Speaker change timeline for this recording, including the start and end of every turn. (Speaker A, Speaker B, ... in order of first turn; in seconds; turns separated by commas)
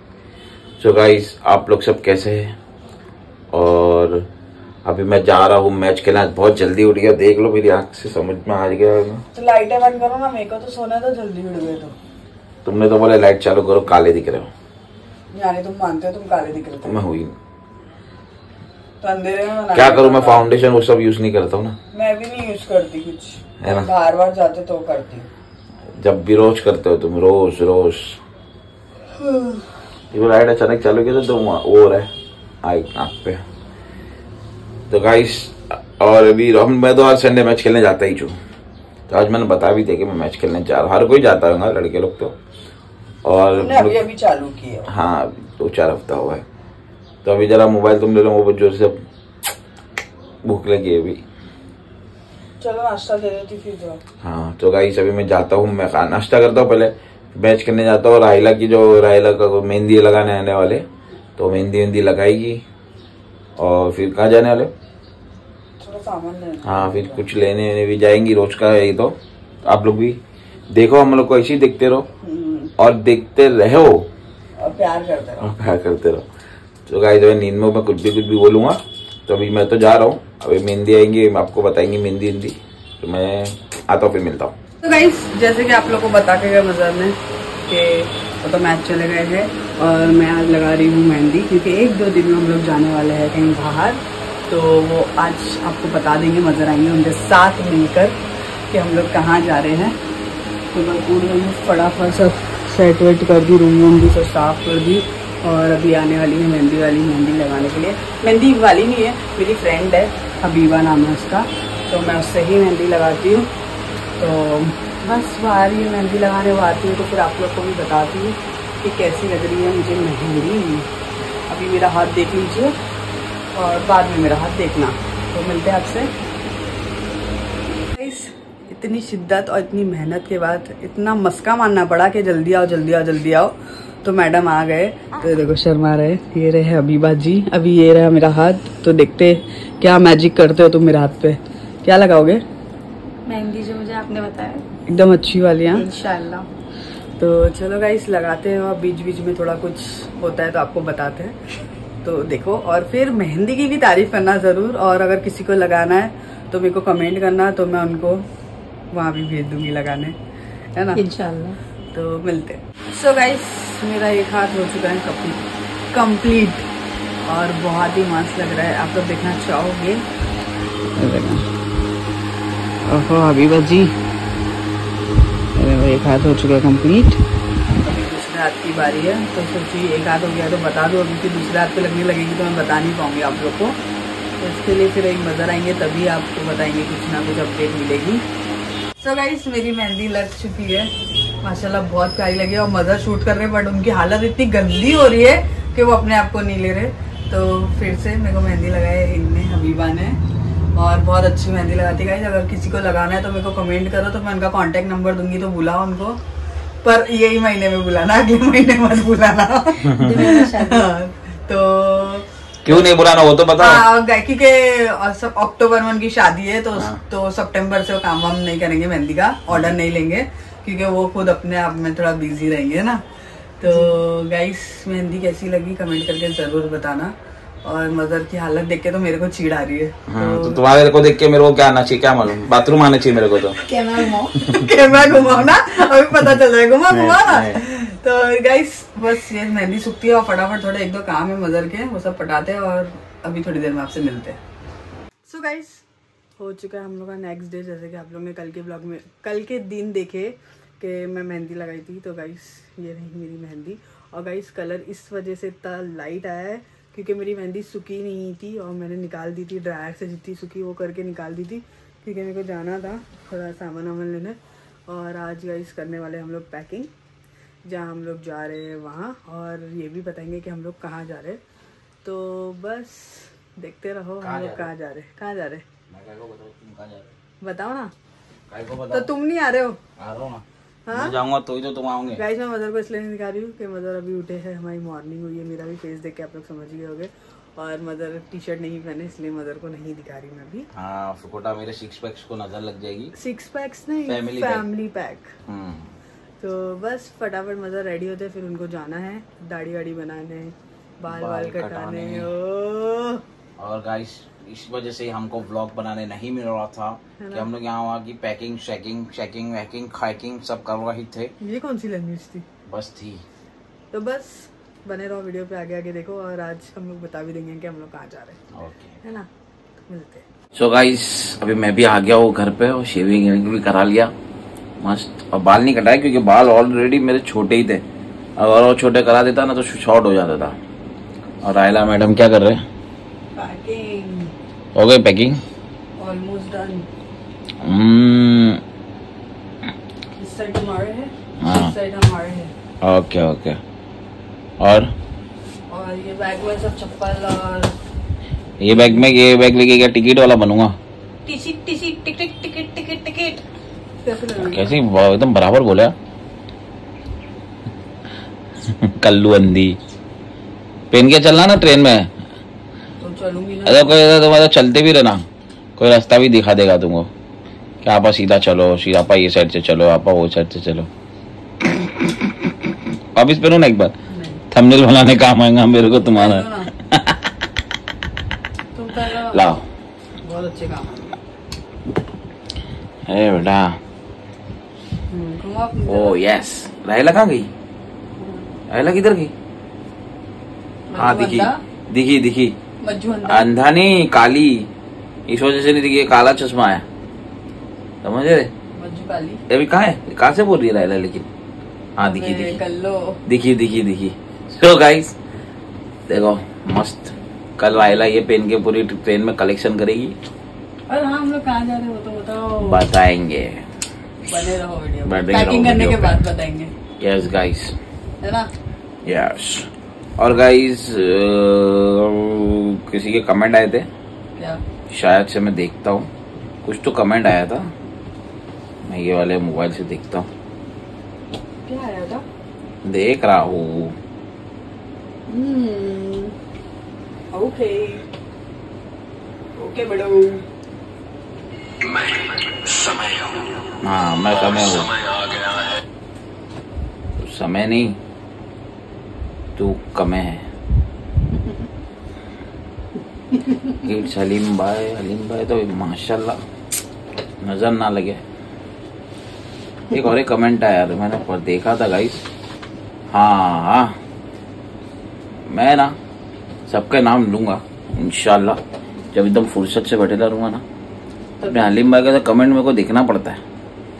Speaker A: 0.8-2.5, Speaker A: 3.5-4.2, Speaker A: 4.8-9.2, Speaker B: 9.3-11.9, Speaker A: 12.6-14.5, Speaker B: 15.3-17.0, Speaker A: 16.8-17.3, Speaker B: 19.0-20.5, Speaker A: 19.7-21.8, Speaker B: 21.9-25.3, Speaker A: 23.6-23.9, Speaker A: 26.0-28.2, Speaker B: 29.2-29.6, Speaker A: 30.1-32.1, Speaker A: 32.6-33.4, Speaker A: 34.9-38.3, Speaker A: 39.1-42.3, Speaker A: 43.2-44.0, Speaker B: 43.5-44.9, Speaker A: 44.9-46.4, Speaker A: 47.2-49.0, Speaker A: 50.4-51.2, Speaker B: 52.6-54.0, Speaker A: 54.2-60.9, Speaker A: 61.4-62.6, Speaker A: 63.6-64.7, Speaker B: 65.8-67.2, Speaker A: 66.6-70.2, Speaker A: 70.7-72.0, Speaker B: 72.2-72.7, Speaker A: 72.8-74.1, Speaker B: 74.6-75.4, Speaker A: 75.4-76.2, Speaker A: 76.9-84.5, Speaker B: 84.8-87.1, Speaker B: 87.7-98.2, Speaker B: 98.7-100.0, Speaker B: 100.7-113.5, Speaker B: 114.2-120.9, Speaker B: 121.5-122.7, Speaker B: 123.5-126.1, Speaker B: 127.9-142.4, Speaker C: 143.2-144.7, Speaker B: 144.9-145.9, Speaker C: 145.7-146.5, Speaker B: 147.2-151.3, Speaker B: 152.0-158.2, Speaker B: 158.9-160.2, Speaker B: 160.7-161.0, Speaker C: 160.9-161.6, Speaker B: 161.9-166.7, Speaker B: 167.2-170.0, Speaker B: 170.9-171.5, Speaker B: 172.8-173.9, Speaker B: 175.6-183.8, Speaker B: 184.4-188.2, Speaker B: 189.0-190.9, Speaker B: 191.4-200.2, Speaker B: 200.7-206.2, Speaker B: 206.8-212.9, Speaker C: 210.0-210.9, Speaker A: 212.6-213.8, Speaker B: 213.6-223.0, Speaker B: 223.6-227.1, Speaker B: 227.6-230.6, Speaker A: 230.1-233.6, Speaker C: 233.6-234.3, Speaker B: 233.7-244.4, Speaker A: 236.9-237.6, Speaker B: 245.2-245.8, Speaker B: 246.4-264.4, Speaker B: 264.9-266.9, Speaker B: 267.6-271.4, Speaker B: 272.0-275.6, Speaker A: 274.2-274.7, Speaker A: 275.9-277.1, Speaker B: 277.4-277.9, Speaker A: 278.5-279.1, Speaker B: 278.9-279.8, Speaker A: 280.0-282.2, Speaker B: 280.9-281.1, Speaker B: 282.1-290.7, Speaker A: 290.7-293.1, Speaker B: 293.1-295.3, Speaker A: 294.1-294.6, Speaker A: 295.5-295.9, Speaker B: 296.4-303.2, Speaker A: 301.1-302.3, Speaker A: 303.6-311.3, Speaker B: 307.2-307.5, Speaker B: 311.4-312.4, Speaker A: 312.7-313.2, Speaker B: 313.9-318.4, Speaker A: 318.6-318.9, Speaker B: 319.9-320.2, Speaker A: 320.5-324.1, Speaker A: 324.8-327.8, Speaker A: 328.4-330.6, Speaker A: 331.4-332.6, Speaker B: 333.3-334.3, Speaker A: 334.7-335.4, Speaker B: 336.0-336.9, Speaker A: 337.6-338.6, Speaker B: 340.1-342.5, Speaker A: 341.4-341.7, Speaker A: 342.8-343.6, Speaker A: 344.6-344.9, Speaker B: 345.7-347.7, Speaker A: 348.6-350.7, Speaker B: 348.7-349.0, Speaker B: 351.2-353.3, Speaker C: 352.6-353.4, Speaker B: 354.0-354.8, Speaker A: 354.4-355.9, Speaker A: 358.6-359.8, Speaker A: 360.9-362.1, Speaker B: 363.0-364.0, Speaker A: 363.6-365.2, Speaker A: 365.8-367.1, Speaker A: 367.8-370.9, Speaker A: 373.1-373.9, Speaker B: 374.1-374.4, Speaker A: 374.5-377.2, Speaker B: 375.9-376.7, Speaker B: 378.7-379.5, Speaker A: 379.3-379.6, Speaker B: 380.2-381.2, Speaker A: 383.1-383.8, Speaker B: 385.1-386.2, Speaker A: 385.9-387.5, Speaker B: 388.2-388.5, Speaker A: 388.7-389.3, Speaker B: 390.9-391.6, Speaker A: 390.9-392.5, Speaker B: 392.8-393.5, Speaker A: 393.2-394.7, Speaker A: 395.3-396.8, Speaker A: 398.0-398.5, Speaker B: 398.8-399.4, Speaker A: 399.5-401.2, Speaker A: 402.0-402.6, Speaker B: 402.0-403.2, Speaker A: 403.3-405.1, Speaker A: 406.1-410.1, Speaker B: 410.9-412.8, Speaker A: 412.6-413.6, Speaker B: 414.2-416.7, Speaker A: 415.1-416.2, Speaker A: 417.0-417.8, Speaker B: 418.2-418.5, Speaker A: 419.0-423.9, Speaker A: 424.9-426.1, Speaker A: 426.6-427.7, Speaker A: 428.9-430.3, Speaker B: 431.6-432.2, Speaker A: 432.8-433.9, Speaker B: 435.3-436.3, Speaker B: 437.3-438.1, Speaker B: 439.6-440.4, Speaker A: 443.8-445.0, Speaker A: 447.2-448.0, Speaker A: 449.6-450.4, Speaker A: 453.7-456.4, Speaker A: 457.4-458.2, Speaker A: 459.9-462.2, Speaker A: 463.1-463.9, Speaker A: 465.5-465.9, Speaker A: 466.7-468.6, Speaker A: 469.1-470.6, Speaker B: 471.4-471.8, Speaker A: 471.4-473.4